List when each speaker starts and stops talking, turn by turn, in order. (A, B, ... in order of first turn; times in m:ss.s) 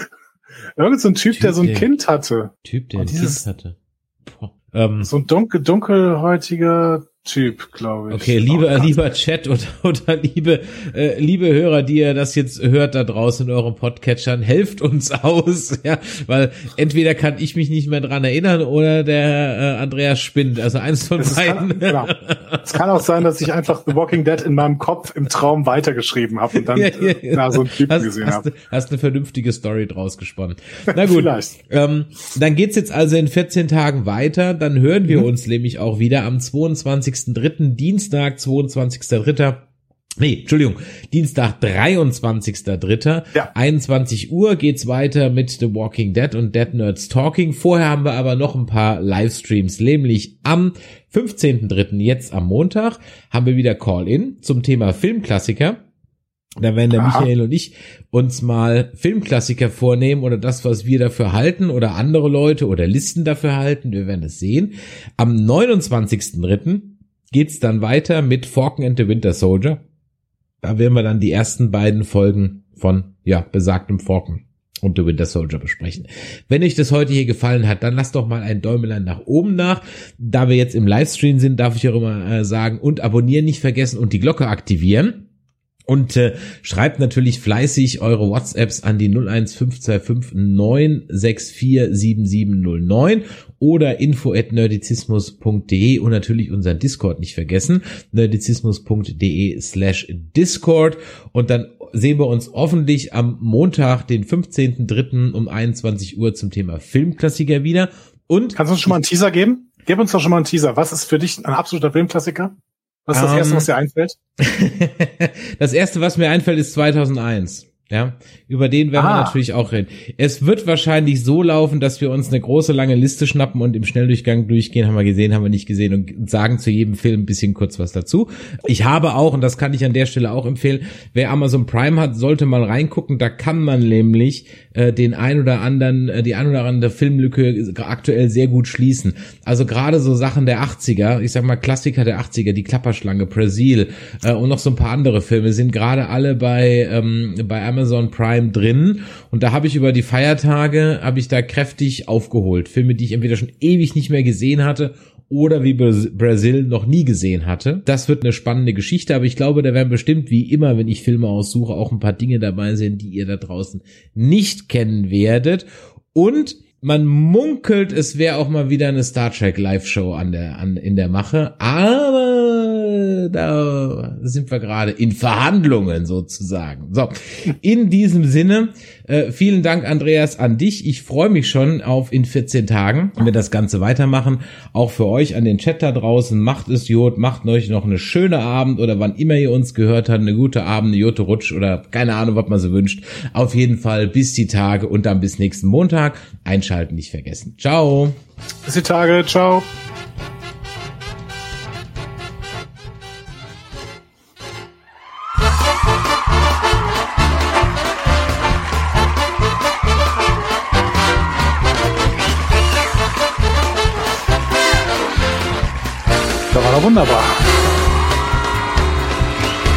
0:00.8-0:03.4 A
0:01.4-0:01.9 B
0:02.6-0:05.1 B
0:05.0-0:09.0 A
0:08.1-0:22.7 B
0:21.2-0:28.5 A
0:26.6-0:39.6 B
0:30.9-0:31.5 A
0:40.2-0:55.8 B
0:56.6-1:09.8 B
0:57.0-0:57.3 A
1:10.6-1:25.3 B
1:25.9-1:49.0 B
1:48.6-1:52.5 A
1:53.1-1:54.2 A
1:53.1-1:53.7 B
1:54.4-3:18.2 B
1:59.0-1:59.4 A
3:18.6-3:19.7 A
3:36.5-3:37.6 A